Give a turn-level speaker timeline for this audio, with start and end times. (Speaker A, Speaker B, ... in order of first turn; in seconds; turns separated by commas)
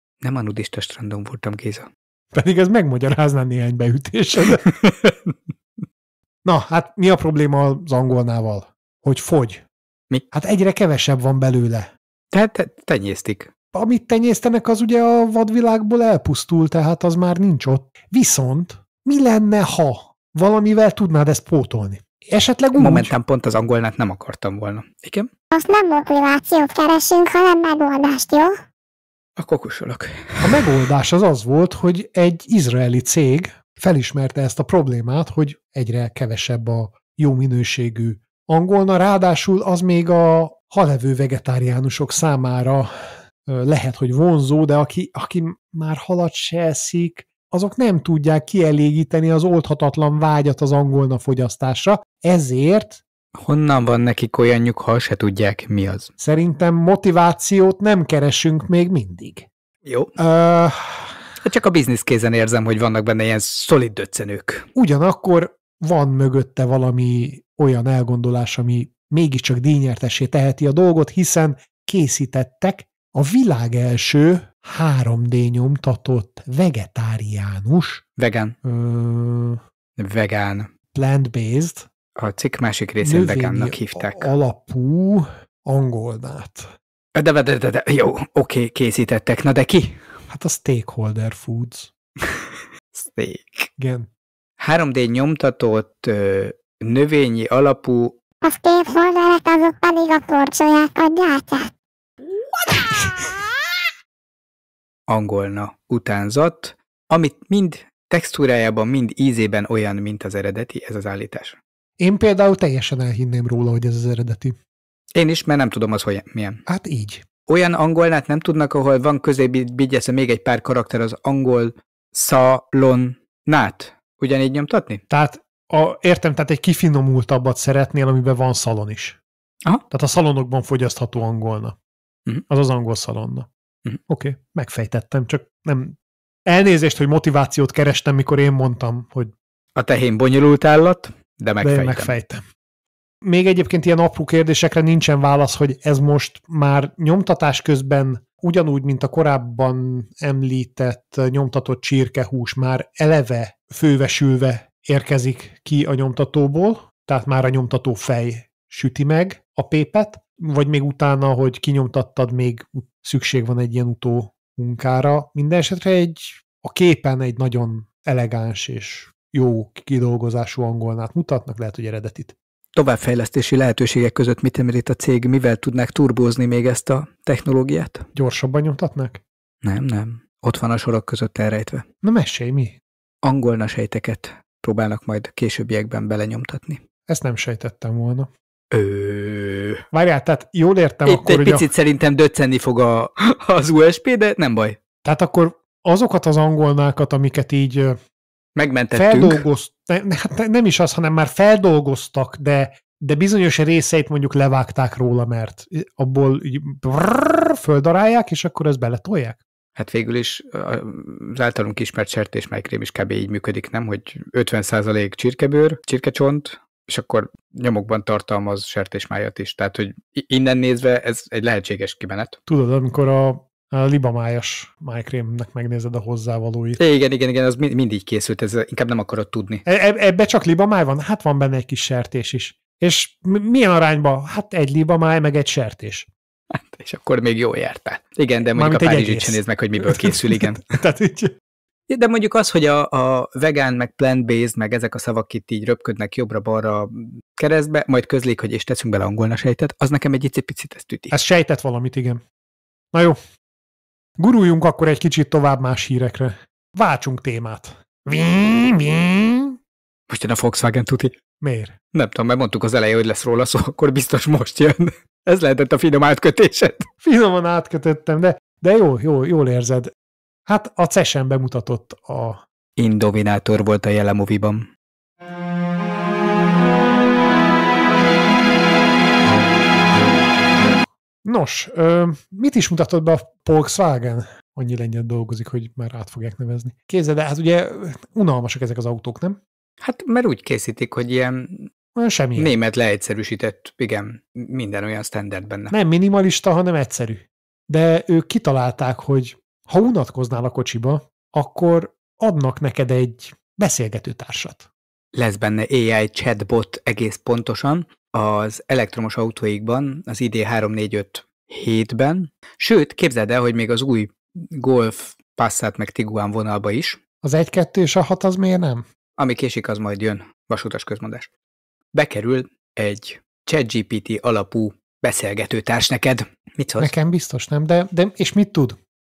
Speaker A: 0.2-1.9, Speaker B: 2.3-4.6, Speaker A: 4.5-5.3, Speaker B: 6.4-9.6, Speaker B: 10.3-11.9, Speaker A: 12.3-13.5, Speaker B: 13.7-23.1, Speaker A: 22.8-25.3, Speaker C: 25.5-28.5, Speaker A: 29.4-30.6, Speaker B: 30.4-53.0, Speaker A: 53.3-56.1, Speaker B: 56.2-59.5, Speaker A: 59.8-60.1, Speaker B: 60.2-61.2, Speaker A: 61.4-64.7, Speaker B: 64.7-78.0, Speaker A: 78.2-78.5, Speaker B: 78.6-79.6, Speaker A: 80.0-80.7, Speaker B: 80.9-81.9, Speaker A: 82.2-84.3, Speaker B: 83.0-86.7, Speaker A: 87.1-90.0, Speaker B: 90.3-91.9, Speaker A: 92.2-93.7, Speaker B: 93.8-94.1, Speaker A: 94.6-98.2, Speaker C: 98.4-101.7, Speaker A: 105.1-111.6, Speaker B: 112.0-114.5, Speaker A: 115.1-116.6, Speaker B: 116.7-117.2, Speaker A: 117.5-125.0, Speaker B: 125.1-129.2, Speaker B: 129.9-131.8, Speaker B: 132.5-133.5, Speaker B: 134.1-139.3, Speaker A: 139.7-142.1, Speaker B: 141.6-142.4, Speaker B: 143.2-172.3, Speaker A: 172.7-178.0, Speaker B: 178.1-179.2, Speaker A: 179.6-181.8, Speaker B: 182.0-182.8, Speaker A: 183.2-186.8, Speaker B: 187.1-188.3, Speaker A: 188.7-189.8, Speaker B: 189.9-191.7, Speaker A: 191.1-194.8, Speaker B: 195.0-198.0, Speaker A: 198.6-199.4, Speaker B: 198.9-209.4, Speaker A: 209.8-222.4, Speaker B: 222.5-226.8, Speaker A: 226.8-229.6, Speaker B: 229.7-236.1, Speaker A: 236.5-240.6, Speaker B: 238.5-241.3, Speaker A: 241.9-251.1, Speaker B: 251.1-252.2, Speaker B: 252.9-253.2, Speaker B: 254.2-259.6, Speaker A: 260.1-261.2, Speaker B: 261.4-261.8, Speaker A: 261.9-266.9, Speaker B: 267.0-269.9, Speaker B: 270.5-272.4, Speaker A: 272.8-274.7, Speaker B: 281.2-289.4, Speaker A: 289.8-291.7, Speaker B: 291.9-292.5, Speaker A: 292.4-295.7, Speaker B: 295.7-304.7, Speaker A: 305.1-317.0, Speaker B: 317.2-318.9, Speaker A: 319.2-321.3, Speaker A: 321.9-326.9, Speaker B: 326.8-328.8